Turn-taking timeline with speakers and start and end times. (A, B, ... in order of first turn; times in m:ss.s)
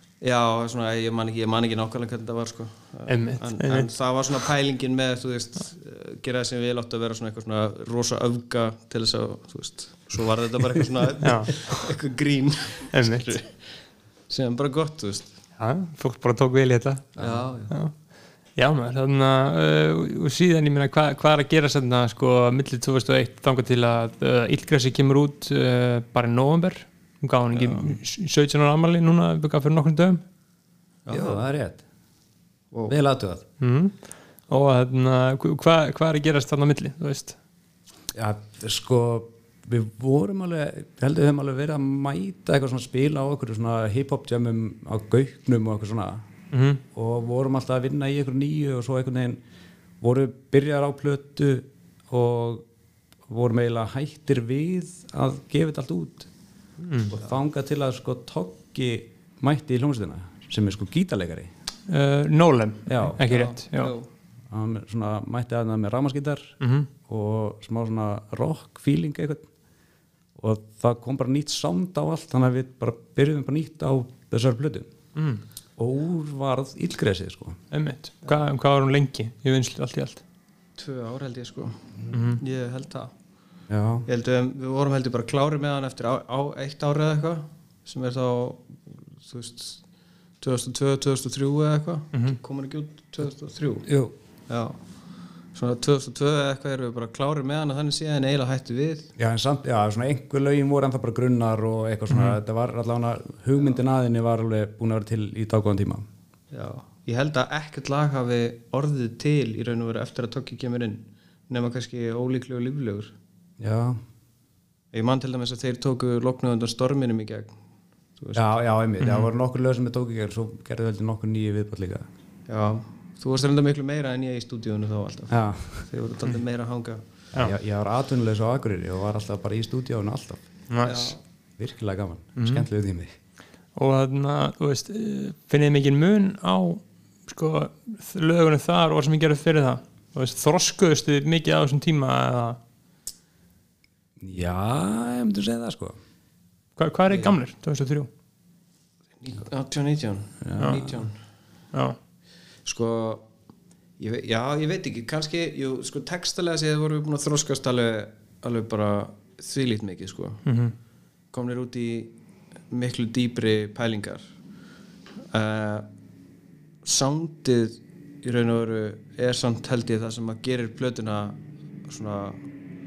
0:00.2-0:13.6 A
0:03.1-0:03.9 B
0:11.2-0:11.9 B
0:12.9-0:13.3 B
0:14.3-0:15.4 A
0:15.6-0:17.9 B
0:17.2-0:17.5 C
0:17.2-0:17.7 A
0:18.6-0:30.2 B
0:27.5-0:28.0 A
0:31.0-0:31.4 A
0:31.1-0:31.8 C
0:32.9-0:33.4 C
0:33.6-0:37.4 B
0:38.1-0:46.2 C
0:46.5-0:46.8 B
0:46.9-0:49.4 C
0:50.0-0:52.6 C
0:53.3-0:56.3 C
0:56.8-0:57.1 B
0:57.1-1:01.5 C
1:01.9-1:03.9 B
1:02.9-1:03.2 C
1:03.3-1:04.1 A
1:04.5-1:09.5 C
1:06.6-1:06.9 B
1:10.4-1:14.9 C
1:15.2-1:15.4 B
1:15.8-1:17.6 C
1:17.7-1:20.2 B
1:20.8-1:21.8 A
1:22.1-1:22.4 B
1:22.4-1:23.1 A
1:23.7-1:24.0 C
1:24.0-1:29.8 A
1:30.4-1:33.9 A
1:33.9-1:34.1 C
1:34.5-1:34.8 A
1:35.5-1:39.1 A
1:39.2-1:46.0 C
1:42.1-1:42.4 B
1:46.5-1:53.1 A
1:53.6-1:54.0 C
1:54.9-1:57.6 A
1:58.2-1:58.5 A
1:58.3-2:02.0 C
1:59.0-1:59.3 B
2:02.5-2:07.0 A
2:05.3-2:05.9 C
2:07.4-2:10.4 C
2:10.7-2:11.1 B
2:10.8-2:11.2 A
2:11.6-2:13.1 C
2:12.4-2:12.6 B
2:13.8-2:22.6 B
2:24.2-2:26.0 C
2:26.8-2:28.1 B
2:27.1-2:27.3 A
2:29.2-2:31.2 A
2:30.4-2:30.9 C
2:30.6-2:30.9 B
2:32.6-2:33.2 A
2:34.0-2:40.4 A
2:40.4-2:40.7 B
2:41.3-2:42.1 A
2:42.7-2:44.2 A
2:45.3-2:45.9 A
2:46.8-2:52.4 A